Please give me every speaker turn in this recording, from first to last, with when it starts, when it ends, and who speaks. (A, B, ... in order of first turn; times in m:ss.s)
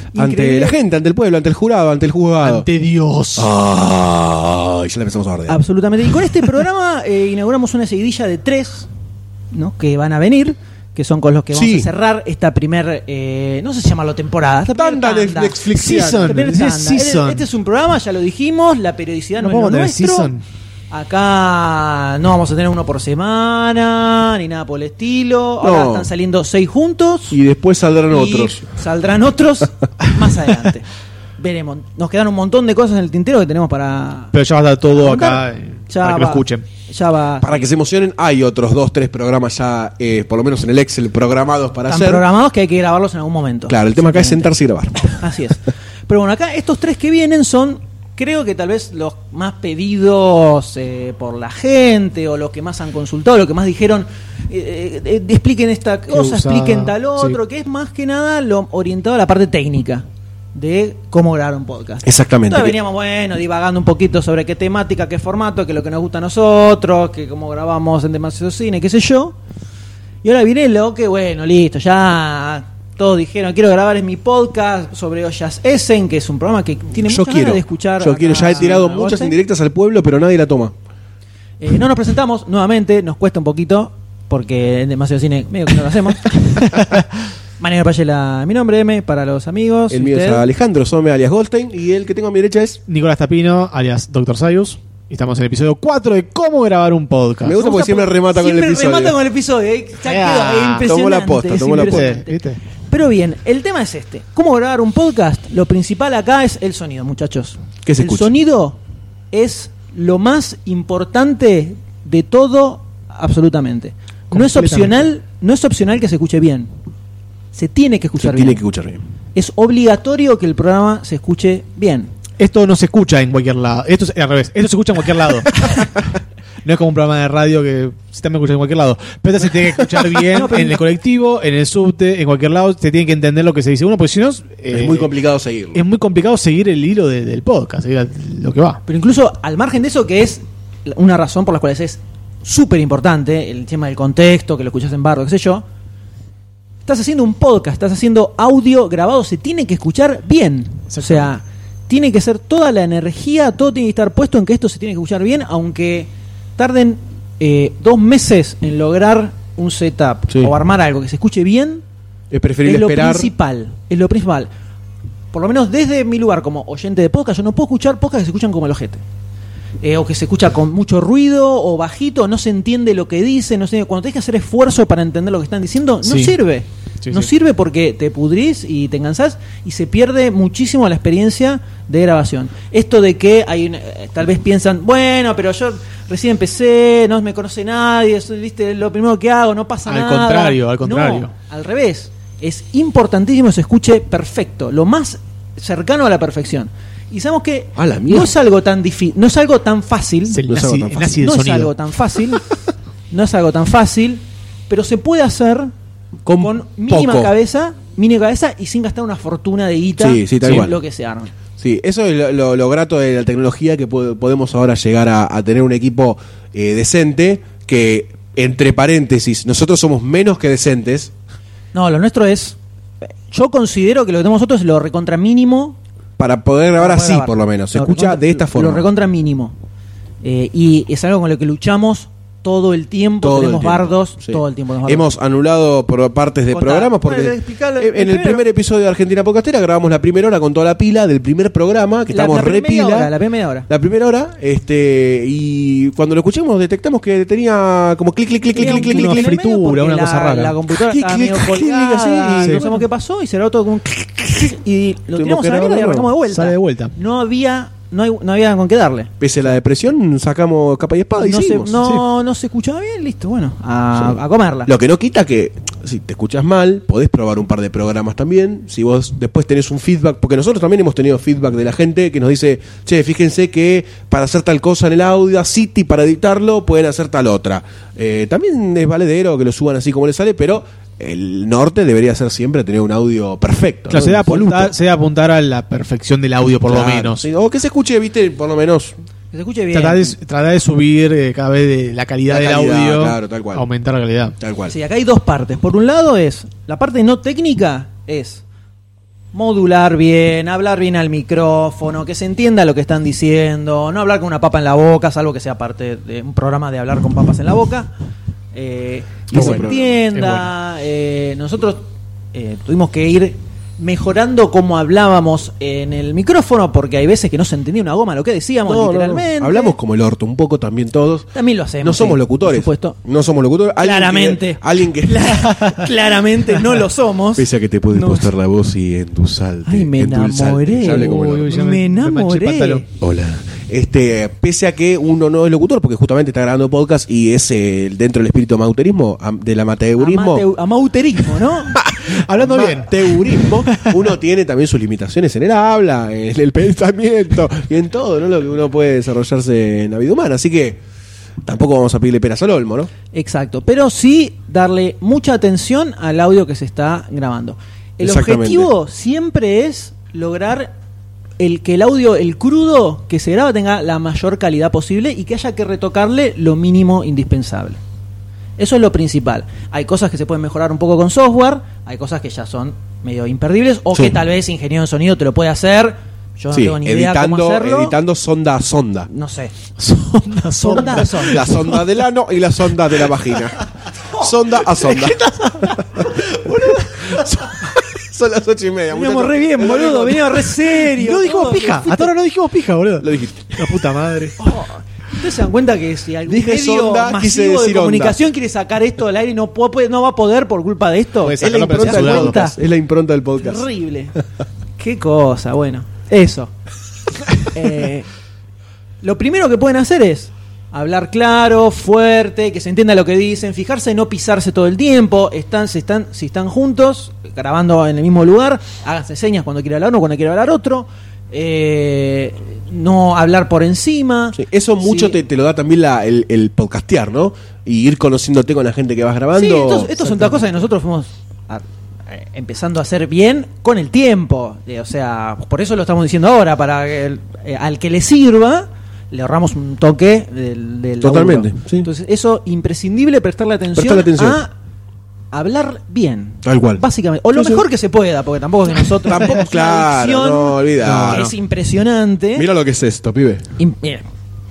0:00.1-0:00.8 A
0:00.1-0:02.7 B
0:02.4-0:03.5 C
0:03.4-0:05.6 B
0:05.5-0:08.9 A
0:09.5-0:20.3 A
0:11.5-0:11.9 B
0:14.7-0:16.5 B
0:15.7-0:17.4 C
0:19.4-0:20.4 C
0:20.9-0:27.4 A
0:25.6-0:26.1 B
0:27.3-0:28.6 B
0:28.1-0:30.9 A
0:31.4-0:34.3 A
0:34.3-0:36.6 C
0:34.9-0:37.7 A
0:37.4-0:42.2 B
0:41.9-0:44.5 A
0:43.7-0:45.2 B
0:45.1-1:09.4 A
0:56.1-0:57.4 C
1:02.0-1:02.8 B
1:10.2-1:19.3 A
1:17.0-1:20.7 B
1:21.6-1:26.9 A
1:27.6-1:30.4 A
1:29.9-1:32.8 B
1:32.9-1:37.6 C
1:37.4-1:39.2 B
1:37.5-1:48.8 A
1:40.0-1:40.9 C
1:40.8-1:42.1 B
1:41.7-1:42.6 C
1:47.8-1:48.3 B
1:49.3-1:56.7 A
1:54.3-1:55.1 C
1:57.5-1:58.6 A
1:58.2-1:59.0 B
1:59.3-2:02.1 A
2:02.4-2:06.1 C
2:06.6-2:15.1 C
2:10.3-2:10.8 A
2:14.7-2:15.8 B
2:15.7-2:18.8 C
2:18.8-2:25.6 A
2:26.8-2:41.8 A
2:30.9-2:31.3 C
2:42.3-2:43.3 B
2:42.6-2:44.5 A
2:45.3-2:49.0 A
2:49.8-3:20.4 A
2:56.0-2:56.4 C
2:57.0-2:57.3 C
3:09.9-3:11.3 C
3:17.8-3:18.3 B
3:20.3-3:21.7 C
3:20.4-3:21.2 B
3:21.2-3:22.5 A
3:23.1-3:25.7 A
3:26.2-3:27.3 B
3:26.4-3:31.3 A
3:30.0-3:30.8 B
3:31.6-3:41.1 B
3:41.7-3:42.6 A
3:43.3-3:45.8 A
3:46.2-3:48.8 B
3:46.8-3:49.5 A
3:50.2-3:55.1 A
3:53.2-4:03.1 B
3:56.5-3:58.4 A
4:02.1-4:03.7 A
4:03.7-4:09.4 B
4:08.5-4:19.1 A
4:08.6-4:10.6 C
4:10.7-4:12.8 B
4:12.4-4:12.7 C
4:15.2-4:16.1 B
4:16.3-4:16.9 C
4:19.2-4:21.8 B
4:21.2-4:24.7 A
4:24.7-4:44.7 B
4:43.9-4:47.2 C
4:46.7-4:48.9 B
4:49.3-4:50.1 A
4:49.7-4:54.4 C
4:52.3-4:53.6 B
4:54.4-4:54.7 B
4:54.7-4:58.4 A
4:59.3-5:07.9 A
5:08.5-5:11.8 A
5:09.3-5:10.0 B
5:09.3-5:10.5 C
5:12.3-5:19.7 A
5:18.6-5:21.3 B
5:21.3-5:23.0 A
5:21.8-5:25.8 B
5:23.8-5:28.3 A
5:27.3-5:31.5 B
5:29.6-5:32.8 A
5:30.8-5:32.8 C
5:33.0-5:40.4 B
5:40.0-5:41.8 A
5:41.7-5:50.8 B
5:42.0-5:44.0 C
5:51.4-5:52.9 B
5:53.1-6:00.7 A
5:58.0-5:58.7 B
6:01.4-6:07.8 A
6:08.6-6:18.0 A
6:16.5-6:19.1 B
6:19.1-6:19.5 A
6:19.8-6:21.9 C
6:20.6-6:21.6 A
6:21.2-6:30.6 B
6:24.6-6:27.3 C
6:28.9-6:32.1 A
6:30.8-6:34.4 C
6:33.0-6:33.7 B
6:34.4-6:42.6 A
6:36.2-6:38.2 B
6:41.2-6:42.5 C
6:41.4-6:43.6 B
6:43.4-6:44.2 A
6:44.8-6:46.5 A
6:47.4-6:48.1 A
6:49.0-7:05.2 A
7:04.3-7:10.5 B
7:09.3-7:24.5 A
7:21.0-7:21.9 B
7:23.8-7:24.4 B
7:25.3-7:32.5 A
7:26.4-7:27.6 B
7:29.0-7:31.3 B
7:30.8-7:31.3 C
7:32.4-7:33.5 B
7:33.6-7:34.1 A